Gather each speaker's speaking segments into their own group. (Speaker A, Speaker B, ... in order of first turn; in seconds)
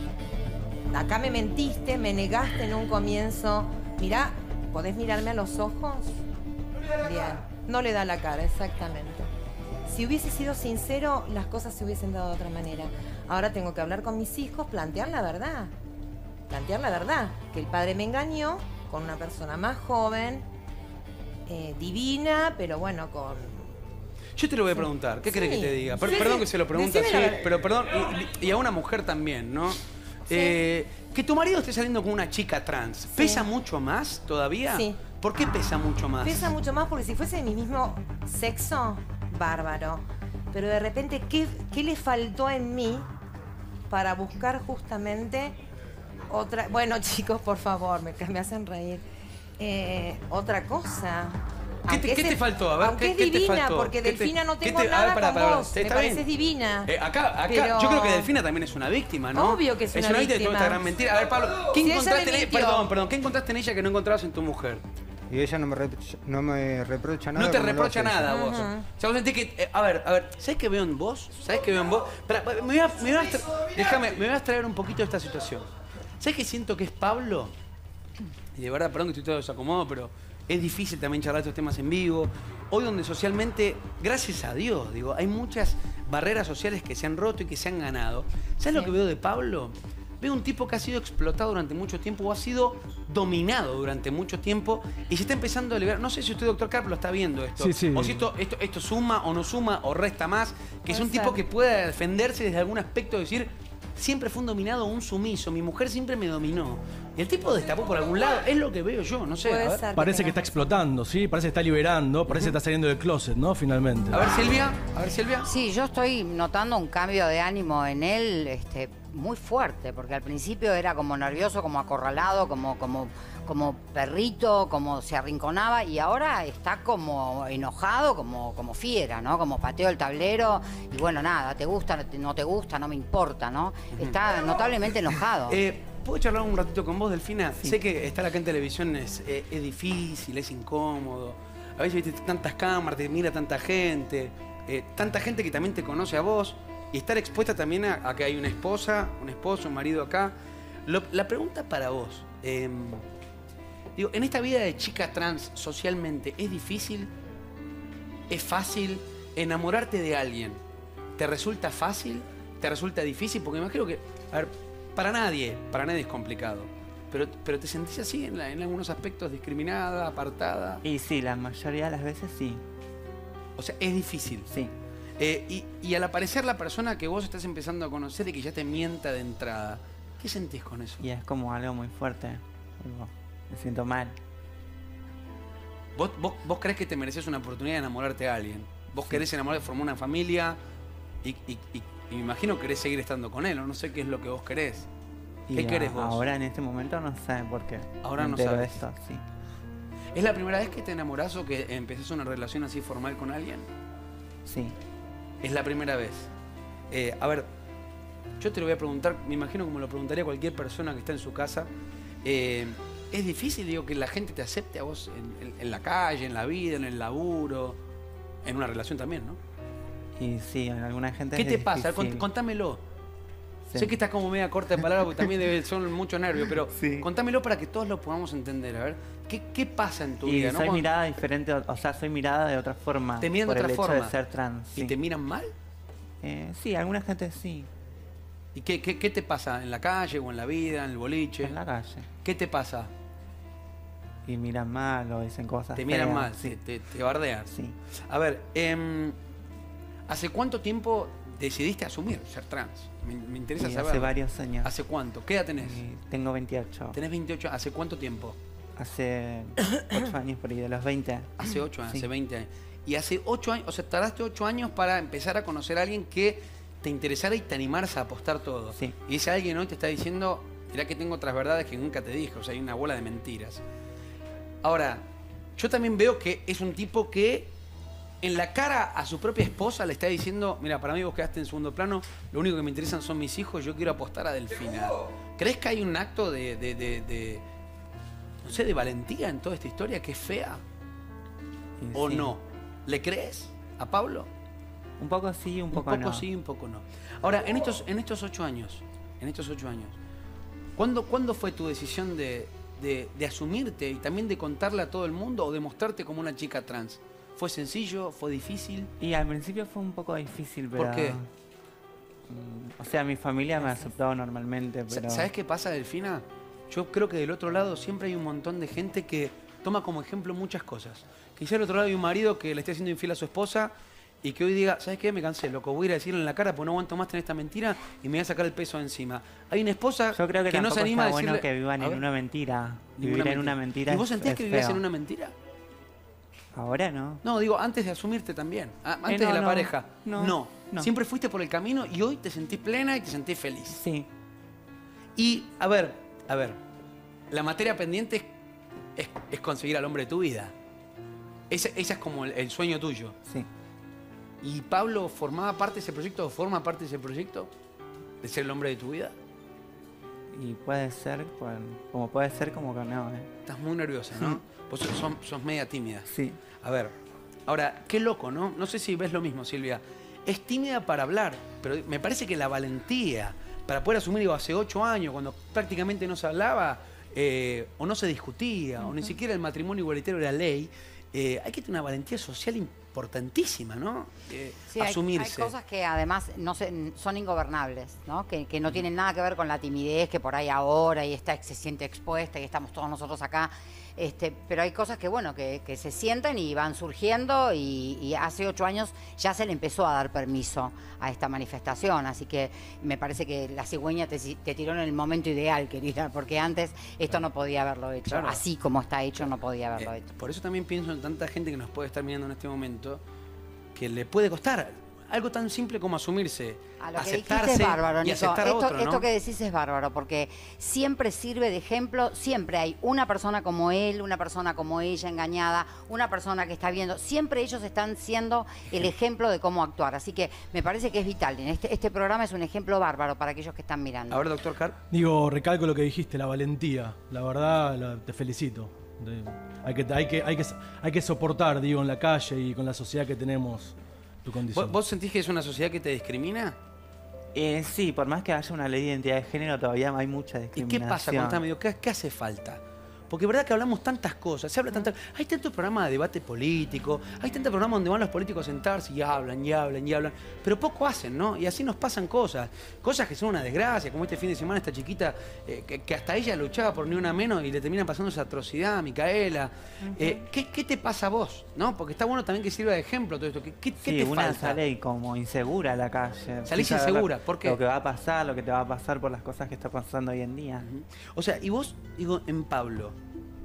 Speaker A: 0.9-6.2, 7.0-9.3, 9.9-15.7, 16.5-20.4, 21.5-23.7, 24.7-27.4, 30.3-30.6, 33.1-33.5, 34.7-35.0, 36.2-43.1, 43.9-45.6, 46.3-49.0, 49.6-56.9, 57.5-58.3, 59.3-60.8, 61.8-62.9, 68.3-68.8, 100.9-101.4, 109.4-110.4, 469.9-470.2
Speaker B: 24.4-36.5, 51.9-56.2, 56.9-64.8, 67.3-75.7, 76.2-77.5, 78.5-109.8, 112.3-112.5, 114.1-115.5, 133.9-134.2, 135.5-150.3, 150.8-153.0, 153.9-157.1, 158.3-160.6, 161.2-170.8, 173.6-174.5, 175.2-181.0, 185.9-190.6, 191.2-194.9, 195.5-196.2, 198.0-198.8, 200.1-203.7, 205.4-206.3, 206.9-207.5, 208.4-211.7, 212.2-217.8, 218.4-219.4, 221.3-222.8, 223.7-230.9, 233.2-234.1, 234.7-235.5, 238.5-241.6, 242.2-242.9, 245.8-247.5, 248.1-249.2, 250.1-255.8, 256.9-258.4, 261.4-273.6, 274.6-275.0, 275.6-277.5, 278.2-287.4, 288.4-290.6, 291.9-294.3, 295.7-299.9, 300.8-308.9, 310.7-311.2, 313.6-313.9, 314.9-323.7, 324.2-332.0, 332.9-335.3, 337.2-343.8, 345.1-346.6, 347.3-348.2, 348.9-350.5, 351.5-353.1, 354.4-357.5, 358.2-359.1, 363.4-366.1, 366.6-366.9, 367.5-385.5, 408.1-408.4, 409.8-413.0, 413.7-419.1, 434.1-434.8, 444.5-446.6, 450.5-474.6, 476.5-477.6, 480.6-482.9
Speaker C: 65.3-68.4
Speaker D: 97.6-98.2, 109.9-114.3, 434.9-444.8
Speaker E: 115.5-135.6, 384.7-410.1, 416.8-434.3
Speaker F: 170.8-172.6, 181.0-184.2, 195.5-199.2, 204.4-204.8, 220.2-222.2, 223.7-224.0, 226.7-227.1, 230.2-234.9, 236.2-237.7, 241.4-242.1, 244.2-246.6, 247.5-247.8, 253.6-254.7, 255.6-257.0, 258.8-262.0, 291.8-292.3, 295.0-296.2, 309.0-311.3, 312.3-315.3, 330.1-334.8, 336.5-337.2, 339.1-340.9, 343.7-344.1, 360.3-363.3, 364.1-364.4, 366.1-366.4, 447.3-451.4, 473.8-480.7